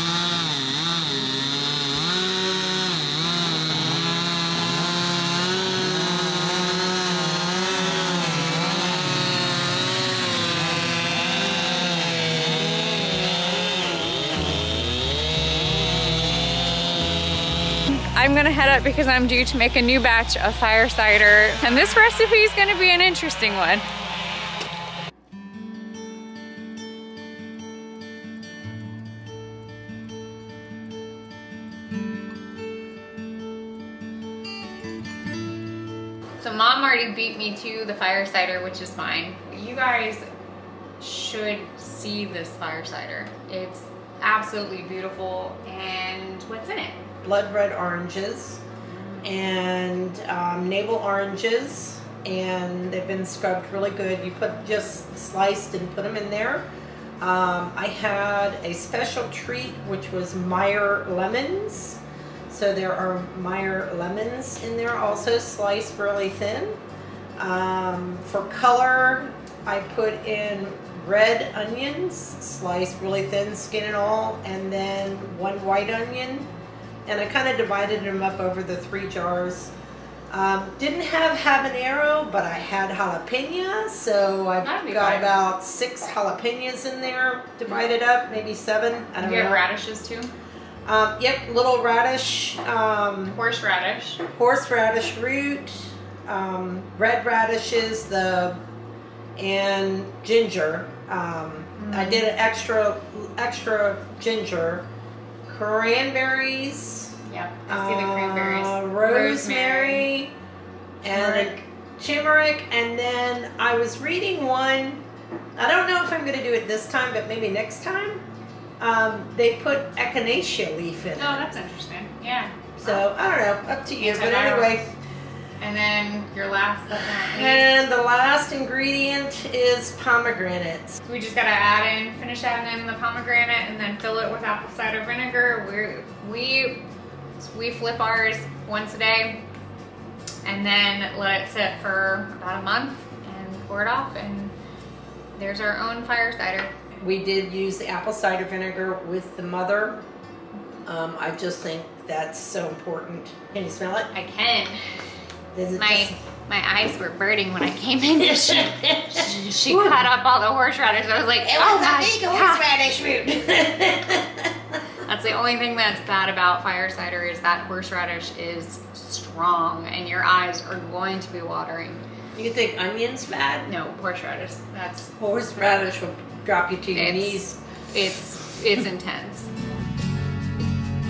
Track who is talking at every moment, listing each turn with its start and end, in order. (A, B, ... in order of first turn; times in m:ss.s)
0:17.9-0:23.8 A
0:36.4-0:40.3 A
0:41.0-0:47.1 A
0:47.2-0:48.6 B
0:48.9-0:49.2 A
0:49.2-0:56.7 B
0:57.2-1:06.8 B
1:07.4-1:16.5 B
1:17.1-1:19.7 B
1:20.3-1:29.6 B
1:24.6-1:25.4 A
1:29.2-1:30.3 A
1:30.8-1:33.4 B
1:33.3-1:34.2 A
1:34.4-1:38.6 B
1:39.4-1:44.9 B
1:41.8-1:42.3 A
1:45.5-1:50.4 B
1:47.3-1:50.1 A
1:51.0-1:55.0 B
1:51.1-1:51.6 A
1:55.6-1:58.2 B
1:58.8-2:01.5 B
2:01.2-2:03.0 A
2:02.8-2:04.9 B
2:04.0-2:04.8 A
2:05.6-2:07.7 A
2:06.9-2:11.0 B
2:11.0-2:16.8 A
2:17.4-2:19.4 A
2:20.4-2:24.6 A
2:25.4-2:26.7 A
2:27.0-2:30.0 B
2:30.8-2:34.1 B
2:34.1-2:34.8 A
2:35.5-2:36.2 B
2:35.8-2:42.7 A
2:38.5-2:40.0 B
2:41.4-2:44.6 B
2:45.0-2:52.0 A
2:52.4-2:53.7 B
2:53.6-2:55.1 A
2:55.1-2:57.6 B
2:56.9-2:59.5 A